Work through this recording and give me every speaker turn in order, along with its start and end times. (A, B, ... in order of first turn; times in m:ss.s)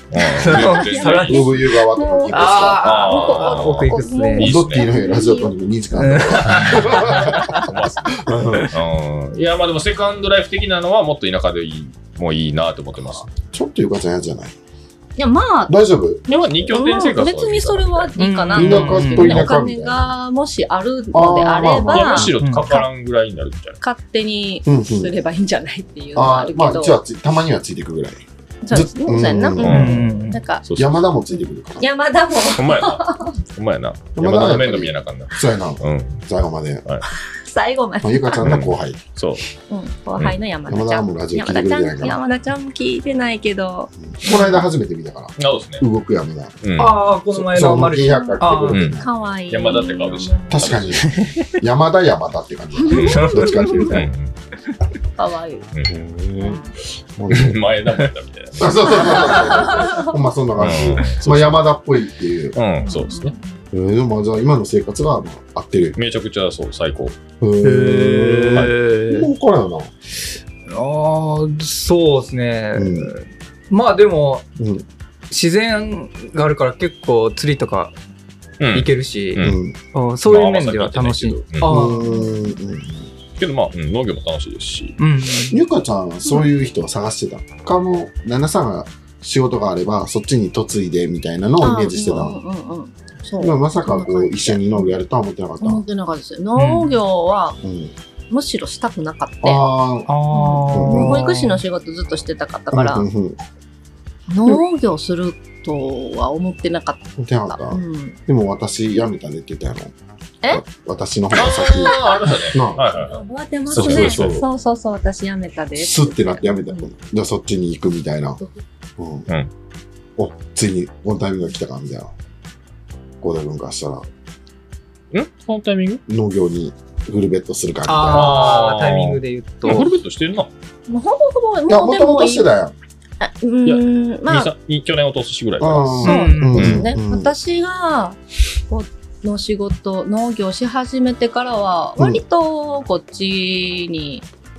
0:00.1-0:01.7 A
0:00.2-0:01.5 B
0:00.5-0:05.5 C
0:01.3-0:02.9 D
0:02.3-0:04.5 B
0:02.8-0:04.9 A
0:04.4-0:08.8 D
0:06.0-0:07.7 B
0:06.4-0:13.3 A
0:13.3-0:14.6 D
0:15.2-0:15.8 C
0:15.7-0:16.7 D
0:16.3-0:22.9 C
0:16.3-0:18.1 A
0:18.2-0:19.5 B
0:18.5-0:20.1 D
0:21.1-0:22.4 D
0:21.9-0:23.8 A
0:22.4-0:22.7 B
0:23.8-0:27.0 C
0:24.7-0:25.1 D
0:26.2-0:30.0 D
0:28.6-0:30.6 C
0:29.6-0:30.4 B
0:29.6-0:31.0 A
0:30.8-0:31.8 D
0:31.8-0:33.4 C
0:32.5-0:36.2 A
0:34.2-0:36.8 D
0:37.1-0:38.4 C
0:38.0-0:39.0 D
0:38.4-0:39.4 A
0:39.7-0:44.6 C
0:40.7-0:42.2 D
0:44.0-0:46.6 D
0:45.4-0:45.8 A
0:46.6-0:47.1 A
0:46.8-0:48.8 B
0:47.3-0:49.1 D
0:48.0-0:48.4 C
0:48.7-0:51.2 A
0:49.0-0:50.8 C
0:50.5-0:54.1 D
0:51.0-0:51.4 B
0:52.8-0:54.0 C
0:52.9-0:54.3 A
0:53.1-0:53.9 B
0:55.2-0:55.7 C
0:55.9-0:57.6 D
0:57.3-0:59.5 A
0:58.6-1:02.6 D
0:58.9-1:00.1 C
1:00.6-1:01.7 A
1:02.6-1:03.3 A
1:02.8-1:03.6 C
1:03.7-1:06.0 D
1:06.0-1:07.2 A
1:07.4-1:09.9 D
1:07.6-1:09.3 B
1:10.7-1:14.5 B
1:12.8-1:13.1 D
1:14.6-1:14.9 D
1:15.3-1:18.0 B
1:18.6-1:19.6 A
1:18.7-1:22.3 B
1:19.4-1:19.8 D
1:20.2-1:21.7 A
1:21.6-1:23.1 D
1:21.8-1:22.3 C
1:23.4-1:25.0 A
1:25.0-1:25.6 B
1:25.4-1:32.4 D
1:31.6-1:35.0 C
1:33.4-1:35.8 D
1:35.6-1:37.6 C
1:36.6-1:37.0 B
1:37.6-1:37.9 D
1:38.3-1:39.6 C
1:39.4-1:40.1 D
1:40.1-1:41.6 B
1:40.3-1:43.1 C
1:40.7-1:41.3 D
1:42.7-1:43.4 D
1:44.3-1:48.2 C
1:47.2-1:49.9 D
1:50.5-1:52.9 D
1:51.3-1:53.2 A
1:51.5-1:56.9 C
1:53.7-1:54.4 D
1:53.7-1:54.4 A
1:55.8-1:58.4 D
1:59.0-1:59.3 D
2:00.2-2:02.1 D
2:03.2-2:04.1 D
2:05.1-2:06.0 A
2:06.1-2:08.6 D
2:07.9-2:09.9 B
2:08.1-2:10.5 A
2:10.9-2:12.5 C
2:11.7-2:12.7 D
2:13.2-2:14.5 C
2:13.7-2:16.8 A
2:15.6-2:17.3 D
2:16.0-2:16.8 B
2:16.0-2:18.2 C
2:18.7-2:24.2 C